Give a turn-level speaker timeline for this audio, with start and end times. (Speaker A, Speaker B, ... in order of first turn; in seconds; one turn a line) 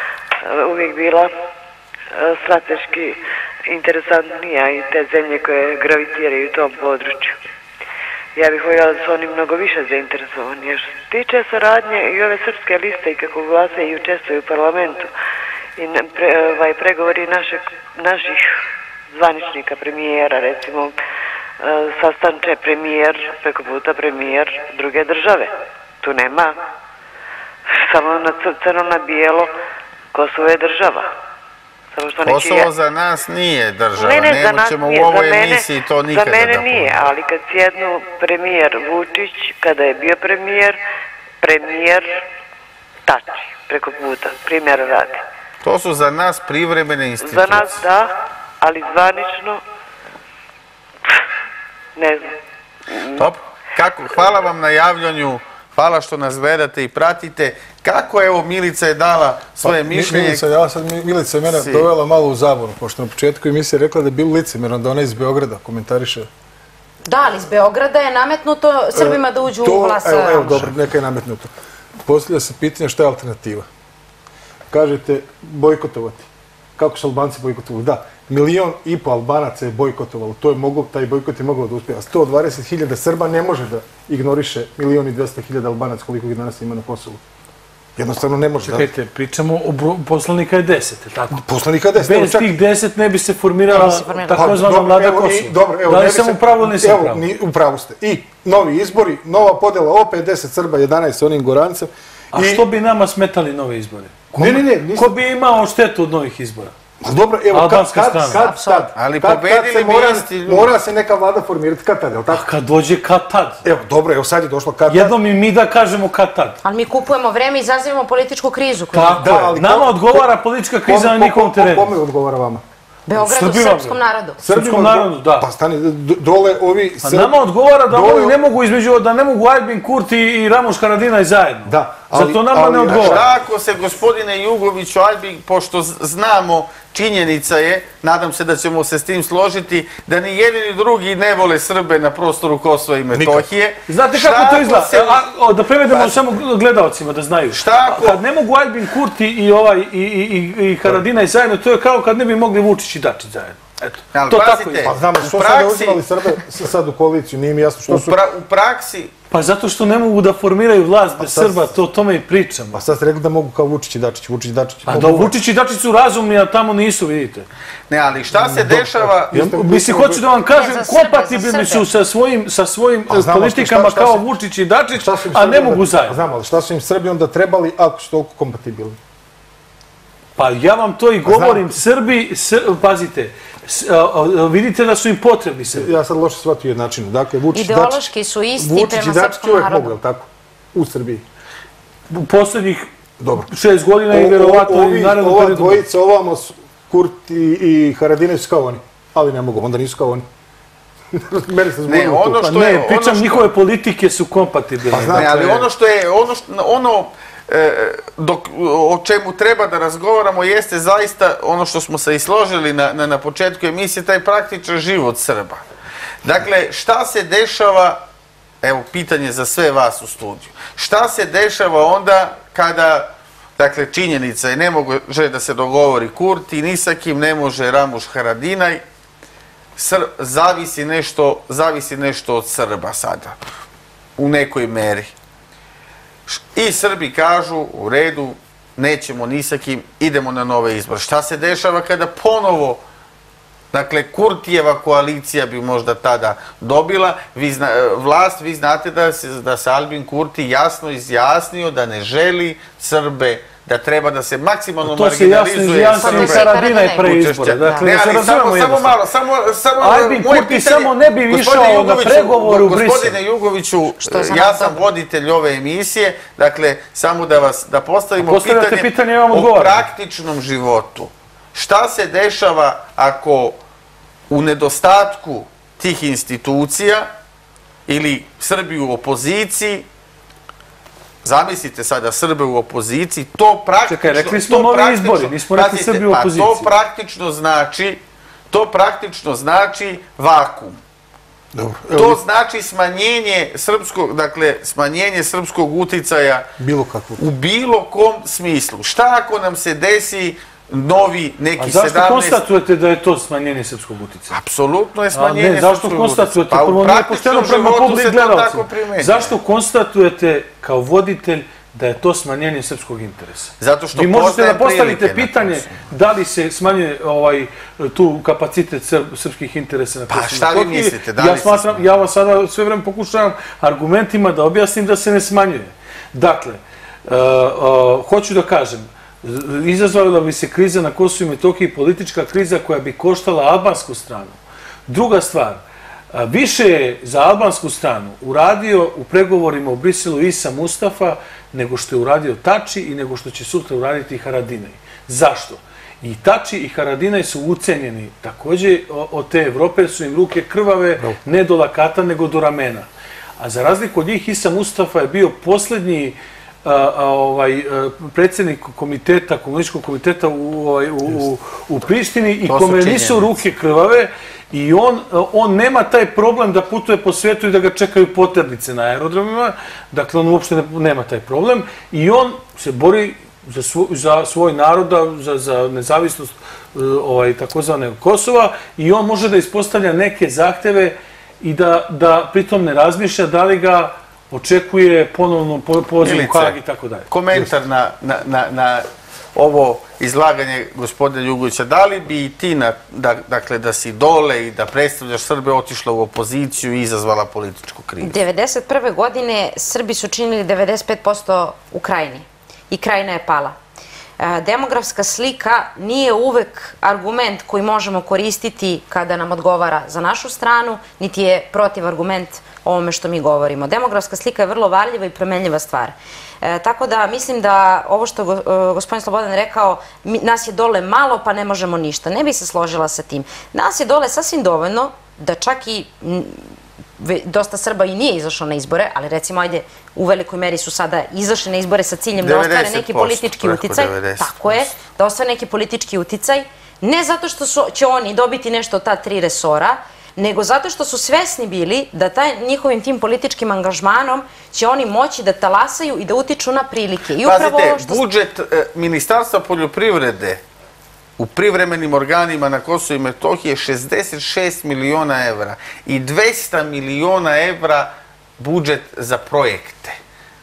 Speaker A: 0.4-1.3
Speaker A: 2.1-3.2
Speaker A: 3.7-7.4
Speaker A: 8.4-15.1
Speaker A: 15.8-18.5
Speaker A: 19.1-20.9
Speaker A: 21.6-26.6
Speaker A: 27.8-29.5
Speaker A: 30.1-31.1
Speaker A: 31.9-32.7
Speaker B: 32.2-37.0
Speaker A: 33.9-40.8
Speaker A: 41.4-42.2
Speaker A: 43.1-45.2
Speaker B: 45.6-47.8
Speaker A: 47.2-49.6
Speaker A: 52.0-52.3
Speaker A: 52.9-53.3
Speaker B: 53.1-60.4
Speaker C: 59.6-66.3
Speaker B: 61.5-61.9
Speaker D: 67.1-70.7
Speaker C: 68.9-71.5
Speaker C: 72.0-73.7
Speaker C: 74.7-87.2
Speaker C: 88.0-88.9
Speaker E: 88.6-91.4
Speaker C: 91.3-92.6
Speaker E: 92.0-97.2
Speaker D: 93.7-94.6
Speaker C: 93.8-102.7
Speaker E: 102.3-106.7
Speaker C: 104.3-105.2
Speaker C: 107.0-112.5
Speaker E: 107.5-108.5
Speaker D: 108.3-108.9
Speaker B: 109.0-110.7
Speaker E: 112.3-113.6
Speaker C: 113.6-115.2
Speaker E: 114.9-116.6
Speaker D: 116.6-119.4
Speaker E: 118.9-121.9
Speaker C: 119.0-120.3
Speaker C: 120.8-122.6
Speaker D: 123.1-124.4
Speaker E: 123.2-125.5
Speaker C: 124.4-127.4
Speaker E: 127.0-133.2
Speaker C: 127.9-128.4
Speaker C: 131.7-133.2
Speaker B: 132.9-145.3
Speaker C: 143.1-143.5
Speaker E: 143.9-155.0
Speaker B: 145.9-146.2
Speaker B: 147.5-148.2
Speaker B: 154.1-156.0
Speaker C: 154.9-158.2
Speaker B: 157.9-159.1
Speaker E: 159.3-162.8
Speaker C: 161.2-161.8
Speaker C: 162.7-165.3
Speaker E: 164.9-167.5
Speaker B: 167.9-169.4
Speaker C: 168.3-170.3
Speaker E: 169.3-176.2
Speaker D: 170.5-171.9
Speaker C: 173.1-174.2
Speaker C: 174.9-179.0
Speaker E: 180.4-185.9
Speaker C: 181.2-181.8
Speaker C: 185.7-191.2
Speaker D: 187.5-189.9
Speaker E: 192.1-192.9
Speaker C: 193.2-193.5
Speaker E: 193.4-195.8
Speaker C: 194.1-200.3
Speaker C: 201.1-202.5
Speaker B: 201.9-203.5
Speaker E: 202.4-205.5
Speaker C: 204.9-205.7
Speaker B: 205.1-215.6
Speaker B: 216.2-218.0
Speaker B: 218.6-228.8
Speaker B: 229.8-233.4
Speaker B: 234.2-235.1
Speaker B: 236.3-242.8
Speaker B: 243.7-273.6
Speaker E: 254.8-258.9
Speaker D: 256.0-257.9
Speaker E: 259.8-263.2
Speaker D: 264.0-264.8
Speaker E: 268.2-269.8
Speaker B: 274.3-277.1
Speaker B: 277.9-279.9
Speaker B: 281.2-288.0
Speaker E: 283.9-286.7
Speaker B: 288.5-290.8
Speaker C: 291.5-292.2
Speaker B: 291.9-296.5
Speaker C: 296.6-297.2
Speaker B: 297.2-302.4
Speaker E: 301.6-304.4
Speaker B: 304.3-309.4
Speaker E: 305.1-335.6
Speaker B: 313.6-315.9
Speaker B: 320.1-321.8
Speaker E: 336.1-352.9
Speaker E: 353.4-387.1
Speaker B: 362.4-363.3
Speaker B: 386.0-386.6
Speaker B: 387.1-398.2
Speaker D: 398.0-403.6
Speaker D: 404.2-448.0
Speaker B: 432.2-434.7
Speaker B: 447.2-450.4
Speaker B: 451.2-460.0